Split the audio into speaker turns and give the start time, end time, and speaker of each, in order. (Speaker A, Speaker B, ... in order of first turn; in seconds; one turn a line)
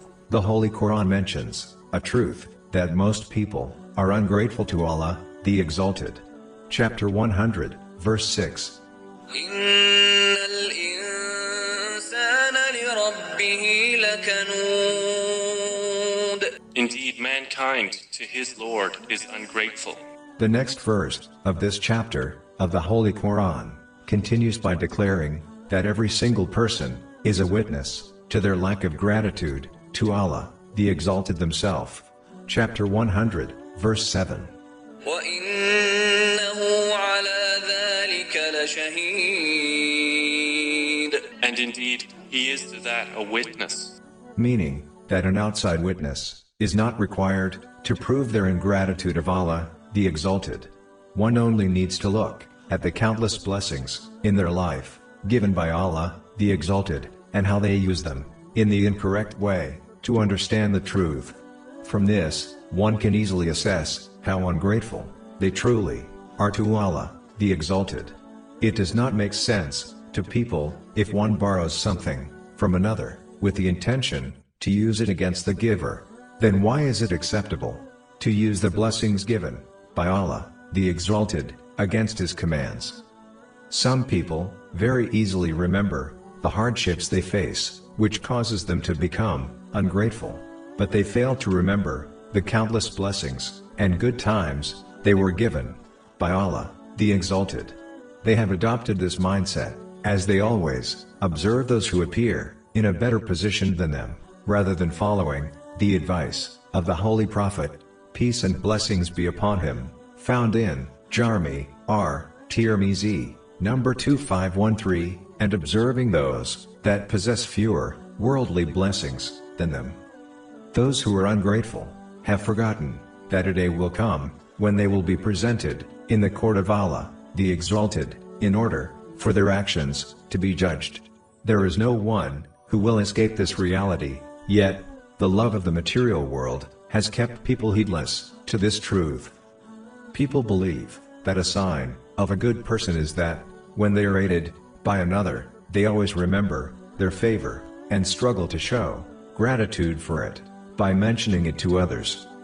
Speaker A: 0.3-8.8
Speaker B: 9.3-16.5
Speaker C: 16.7-20.0
Speaker A: 20.4-34.5
Speaker B: 35.0-41.2
Speaker C: 41.4-43.9
Speaker A: 44.4-83.0
Speaker A: 83.7-120.0
Speaker A: 120.7-139.3
Speaker A: 140.1-152.2